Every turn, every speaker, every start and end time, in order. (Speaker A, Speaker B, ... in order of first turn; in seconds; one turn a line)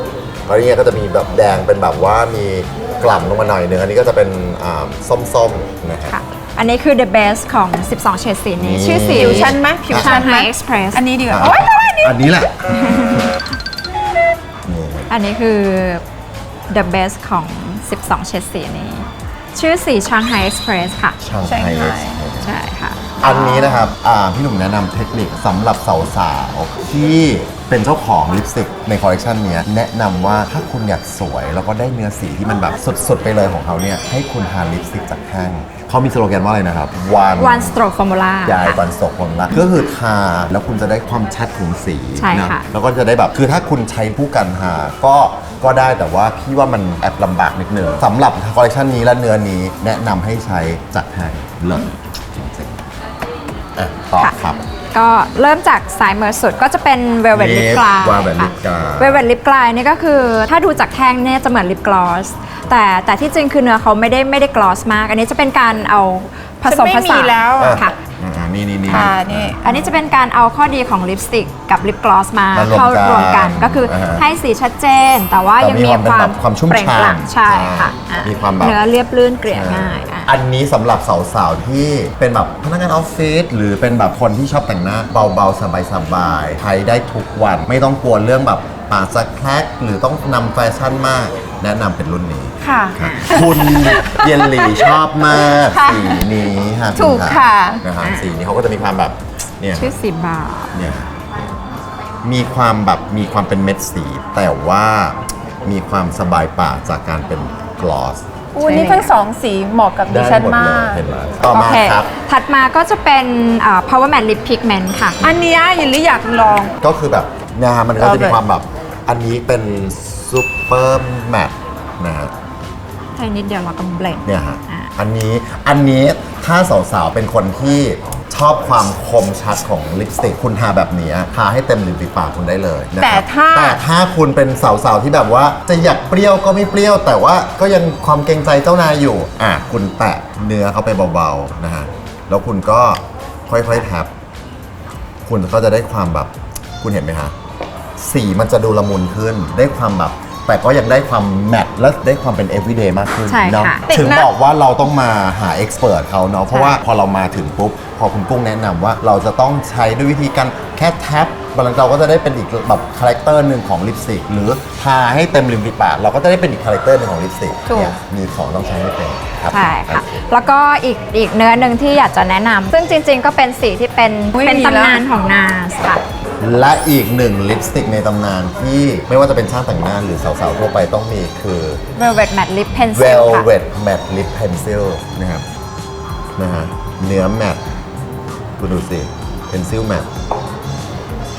Speaker A: 0.5-6.2
Speaker B: 6.0-11.0
Speaker A: 8.6-10.3
Speaker C: 9.1-12.5
Speaker A: 11.3-13.2
Speaker B: 12.8-13.3
Speaker A: 14.7-15.1
Speaker B: 15.1-16.0
Speaker B: 16.7-21.2
Speaker A: 21.2-22.5
Speaker C: 21.4-22.2
Speaker B: 22.4-23.1
Speaker A: 23.2-37.8
Speaker C: 23.2-23.9
Speaker B: 37.4-38.8
Speaker A: 38.5-52.8
Speaker B: 42.2-42.6
Speaker A: 53.8-54.6
Speaker B: 54.9-67.9
Speaker A: 57.3-59.2
Speaker C: 66.7-67.9
Speaker A: 67.6-69.6
Speaker C: 68.9-69.8
Speaker B: 68.9-80.3
Speaker A: 72.5-74.2
Speaker A: 75.6-78.8
Speaker A: 79.5-99.9
Speaker C: 92.6-96.3
Speaker B: 93.0-93.2
Speaker C: 96.9-97.8
Speaker B: 98.0-98.3
Speaker B: 99.8-100.7
Speaker A: 100.7-101.1
Speaker A: 102.2-108.2
Speaker C: 108.5-111.0
Speaker B: 108.6-109.1
Speaker A: 110.1-112.1
Speaker B: 111.5-115.2
Speaker C: 115.2-116.7
Speaker A: 116.8-122.3
Speaker C: 118.0-118.4
Speaker B: 123.1-124.9
Speaker A: 124.2-144.1
Speaker C: 133.0-133.8
Speaker A: 145.2-147.3
Speaker A: 148.0-170.2
Speaker B: 153.3-153.9
Speaker C: 153.9-154.3
Speaker B: 156.5-156.8
Speaker C: 167.7-168.0
Speaker B: 169.5-176.0
Speaker C: 174.3-175.0
Speaker A: 176.4-181.8
Speaker B: 182.0-183.5
Speaker A: 182.9-185.4
Speaker A: 186.4-187.6
Speaker A: 188.6-190.1